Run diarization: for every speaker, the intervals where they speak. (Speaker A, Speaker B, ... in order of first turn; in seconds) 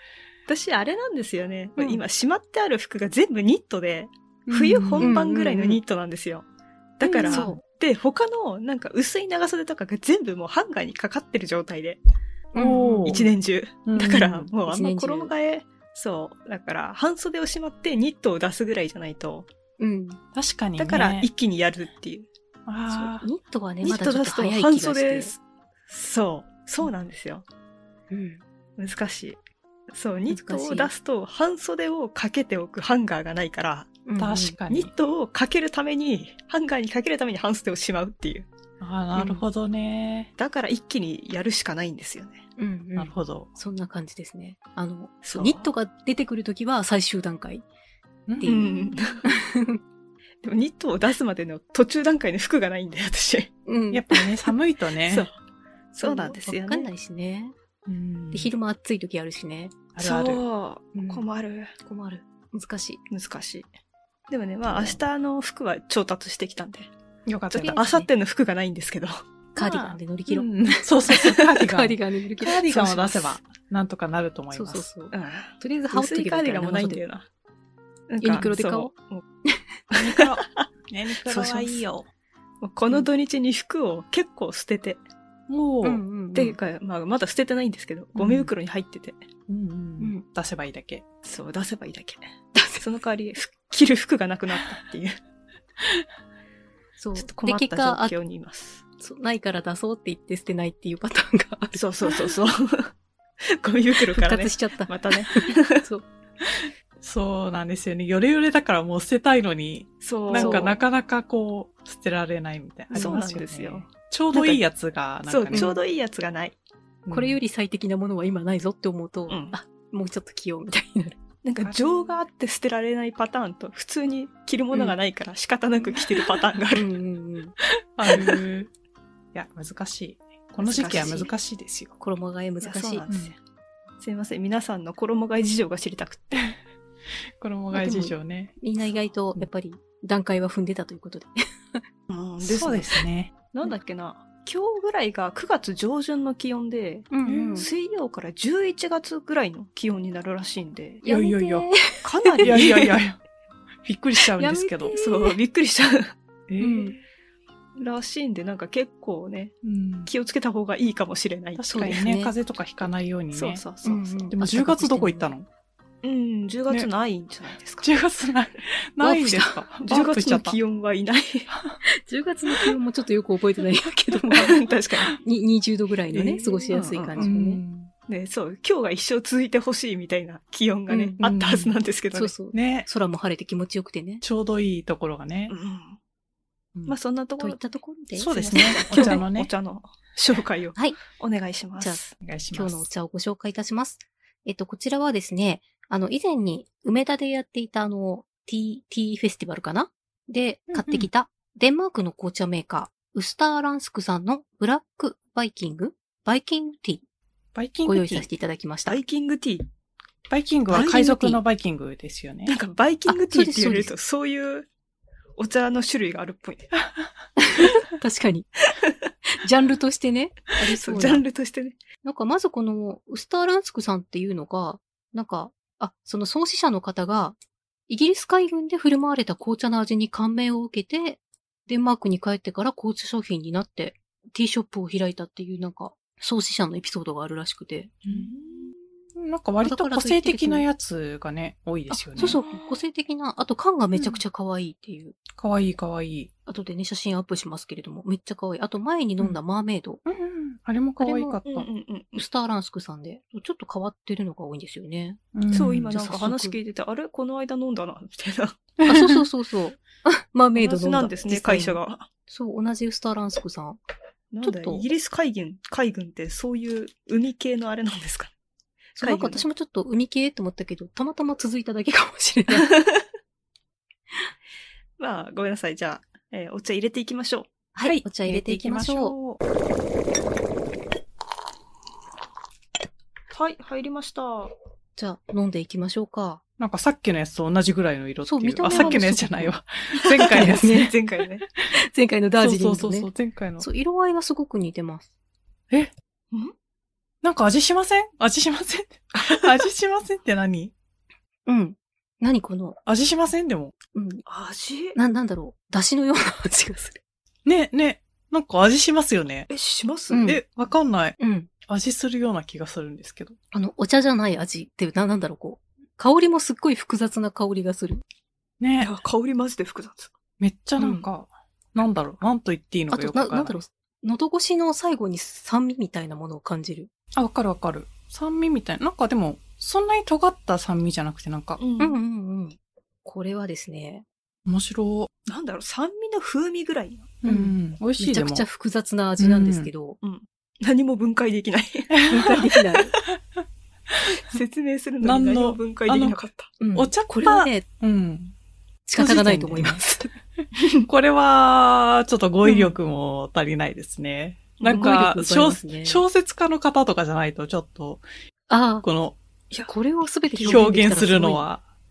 Speaker A: 0.5-6.5, 7.0-12.0, 13.0-19.5, 20.8-22.3, 23.8-27.4, 28.8-29.4, 29.9-34.0, 34.7-38.5, 40.4-42.4, 45.2-45.6, 48.4-49.2, 50.4-53.5, 55.1-55.3, 55.9-56.9, 60.0-61.7, 63.1-63.6, 64.3-66.9, 67.5-69.2, 72.7-73.3, 75.1-77.3, 78.1-79.2, 79.9-80.7, 81.2-81.8, 82.6-85.0, 86.3-89.2, 91.2-92.3, 92.8-95.1, 97.2-98.8, 101.7-102.9, 103.5-105.8, 110.0-110.8, 112.9-113.9, 115.3-116.6, 119.3-119.5, 121.4-126.9, 130.6-131.3, 132.6-133.4, 134.0-136.5, 142.1-151.0, 152.0-153.0, 154.9-156.1, 157.8-162.0, 163.3-164.3, 166.0-167.9, 169.8-171.5, 174.4-175.1, 176.7-177.2, 178.1-182.3, 185.5-186.0, 186.9-187.6, 188.2-192.1, 208.9-209.7, 210.7-211.0, 212.5-214.7, 215.4-216.7, 220.8-221.8, 238.1-238.7, 242.2-242.8, 251.4-252.3, 255.5-258.6, 260.5-262.1, 264.3-268.3, 269.0-269.4, 272.5-273.0, 275.0-277.5, 283.3-284.5, 288.7-289.0, 290.0-291.4, 304.2-305.0, 309.5-310.3, 318.8-320.1, 331.6-332.0, 335.3-337.1, 340.0-342.3, 344.2-346.5, 350.6-350.9, 354.6-354.9, 360.3-360.9
Speaker B: 4.5-5.2, 7.2-7.6, 12.6-13.3, 13.9-14.5, 20.3-21.3, 22.6-23.3, 34.2-34.9, 38.8-40.3, 43.0-43.5, 48.3-48.6, 53.9-55.3, 57.9-58.5, 59.9-60.4, 67.2-67.8, 69.5-74.8, 79.9-82.1, 85.5-86.0, 88.2-88.5, 89.5-91.0, 106.4-115.7, 117.0-117.4, 121.6-122.2, 128.0-128.7, 129.3-131.9, 137.4-138.5, 142.4-143.3, 147.2-147.7, 151.0-151.7, 152.4-153.2, 153.8-154.9, 156.5-156.9, 159.6-160.1, 161.6-163.6, 164.3-165.5, 167.8-170.6, 171.5-171.8, 176.1-177.9, 181.2-181.7, 182.5-182.9, 184.2-185.5, 188.2-189.5, 192.2-192.8, 200.7-201.1, 207.5-208.3, 210.3-212.5, 239.2-242.4, 243.9-244.2, 245.3-246.3, 250.1-251.6, 255.3-255.9, 258.8-259.2, 277.8-279.4, 286.6-290.9, 292.4-293.6, 297.2-300.7, 302.9-303.7, 307.4-309.5, 310.2-313.4, 318.6-318.9, 320.4-323.6, 327.1-331.6, 334.4-335.1, 337.2-338.4, 339.2-339.7, 341.9-342.5, 345.0-346.2, 346.7-348.3, 348.9-349.8, 350.9-358.0, 358.8-359.2, 360.4-361.6
Speaker C: 5.0-5.8, 7.0-7.6, 12.5-13.3, 14.6-15.3, 19.8-20.2, 22.9-25.3, 28.1-28.4, 30.3-30.9, 34.0-34.5, 39.1-39.4, 42.6-47.6, 48.4-49.8, 53.6-54.5, 56.0-57.5, 58.3-59.8, 60.9-61.2, 61.8-63.0, 67.5-68.1, 69.5-72.7, 74.5-77.0, 78.2-78.9, 85.8-86.6, 90.0-90.2, 92.5-92.8, 97.0-98.1, 99.0-102.2, 104.1-106.0, 110.3-110.7, 112.9-113.2, 114.3-114.6, 115.5-115.8, 117.1-121.2, 126.7-127.5, 131.0-131.2, 132.0-133.0, 137.7-141.8, 147.1-147.7, 151.0-152.5, 154.3-155.4, 156.6-157.0, 161.7-162.3, 163.8-165.3, 169.0-169.6, 171.9-174.7, 175.2-177.6, 180.9-181.2, 182.1-184.2, 187.4-188.3, 188.9-189.2, 192.5-207.0, 207.8-209.0, 210.7-211.4, 213.1-213.9, 217.4-218.5, 219.4-221.2, 222.0-227.3, 227.9-238.0, 239.6-240.7, 241.9-245.2, 246.4-250.0, 251.0-251.5, 252.2-255.2, 255.9-256.6, 258.9-263.8, 264.4-264.9, 269.0-272.7, 277.7-279.1, 284.9-286.4, 288.2-289.5, 290.3-290.9, 291.7-295.1, 301.4-302.8, 303.9-304.2, 304.9-307.0, 310.1-310.4, 311.2-311.5, 313.5-318.0, 320.8-321.1, 322.9-326.9, 331.8-334.0, 337.2-340.0, 342.1-342.9, 346.6-347.6, 348.9-350.1, 352.4-352.7, 354.6-356.0, 358.5-358.8, 359.7-361.4